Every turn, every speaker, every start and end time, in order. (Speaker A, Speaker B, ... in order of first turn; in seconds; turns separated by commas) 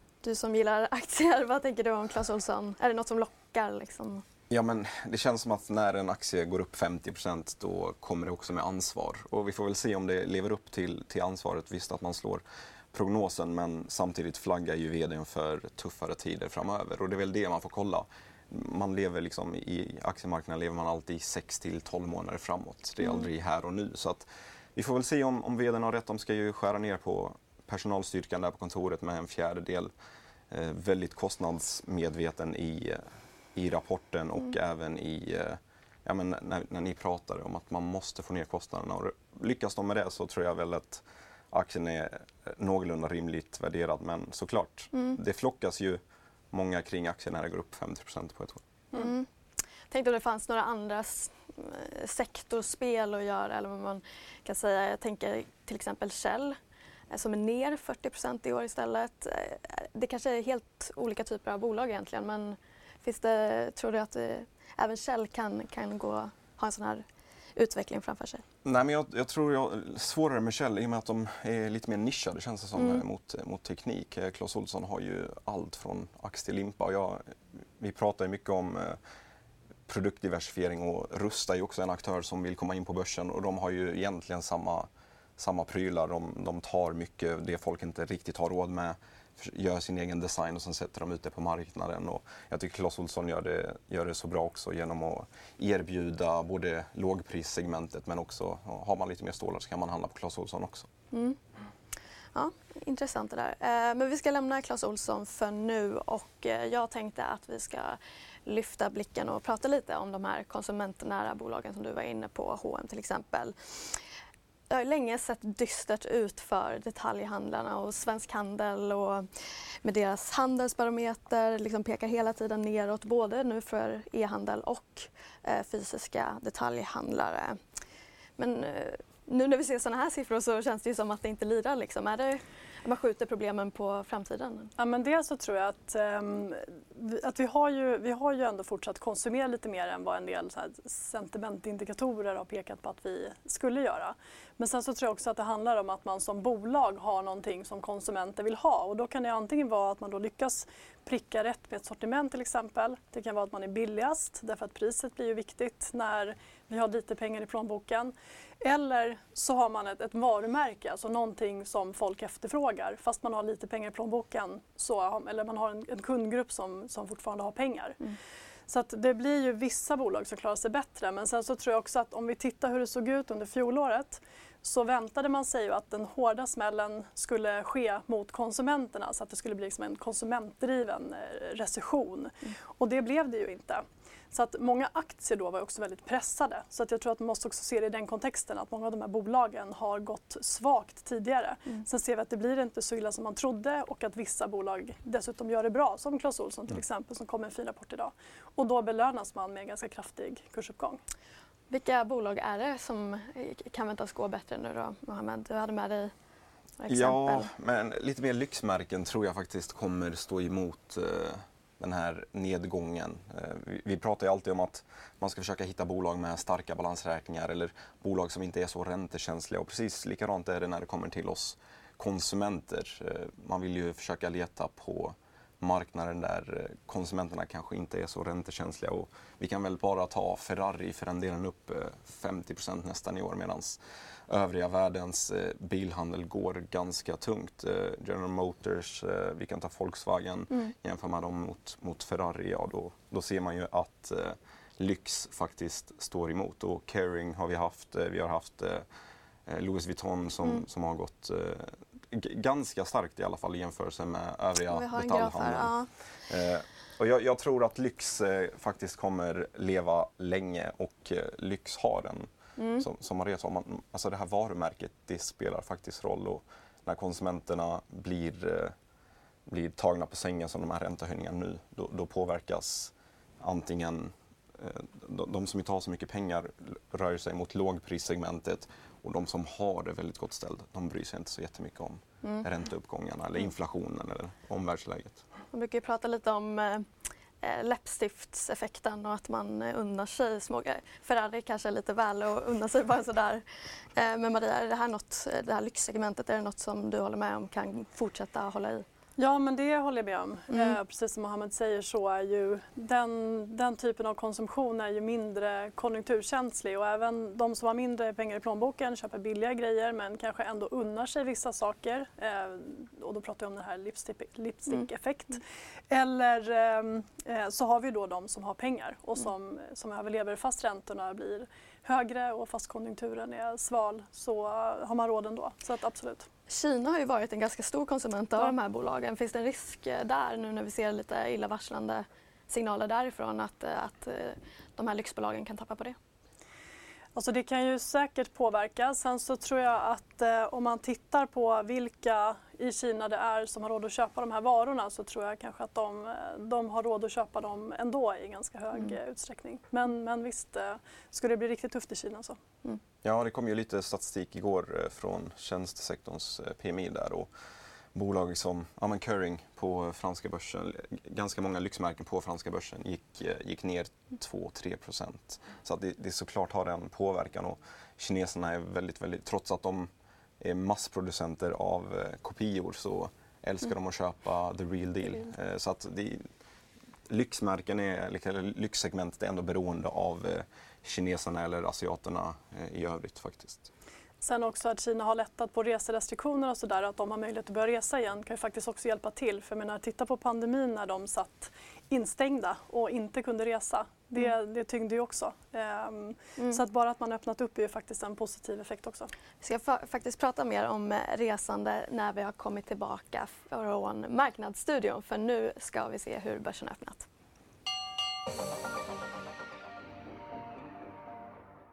Speaker A: 0.2-4.2, Speaker B: 4.5-29.9, Speaker A: 23.0-23.3, Speaker B: 30.5-46.0, Speaker A: 44.9-45.2, Speaker B: 46.5-48.6, Speaker A: 48.9-49.3, Speaker A: 49.9-56.6, Speaker A: 57.1-67.0, Speaker A: 67.5-68.4, Speaker B: 68.6-77.2, Speaker A: 72.8-73.0, Speaker B: 77.8-79.0, Speaker B: 79.9-100.9, Speaker A: 101.1-101.4, Speaker A: 102.3-114.0, Speaker A: 114.7-119.3, Speaker A: 119.8-127.6, Speaker A: 128.4-134.7, Speaker C: 134.8-168.0, Speaker C: 168.7-201.0, Speaker A: 201.7-206.1, Speaker A: 206.8-207.5, Speaker B: 206.9-248.8, Speaker B: 249.5-255.7, Speaker A: 254.7-255.9, Speaker B: 256.2-268.7, Speaker A: 262.6-262.9, Speaker B: 269.5-285.2, Speaker A: 285.5-286.9, Speaker A: 287.4-293.4, Speaker A: 293.9-298.8, Speaker C: 299.2-326.3, Speaker A: 300.5-300.8, Speaker A: 326.5-335.9, Speaker C: 337.1-352.4, Speaker B: 353.0-357.3, Speaker B: 357.9-369.9, Speaker B: 370.4-376.3, Speaker B: 377.1-383.7, Speaker C: 384.2-399.1, Speaker A: 399.4-407.1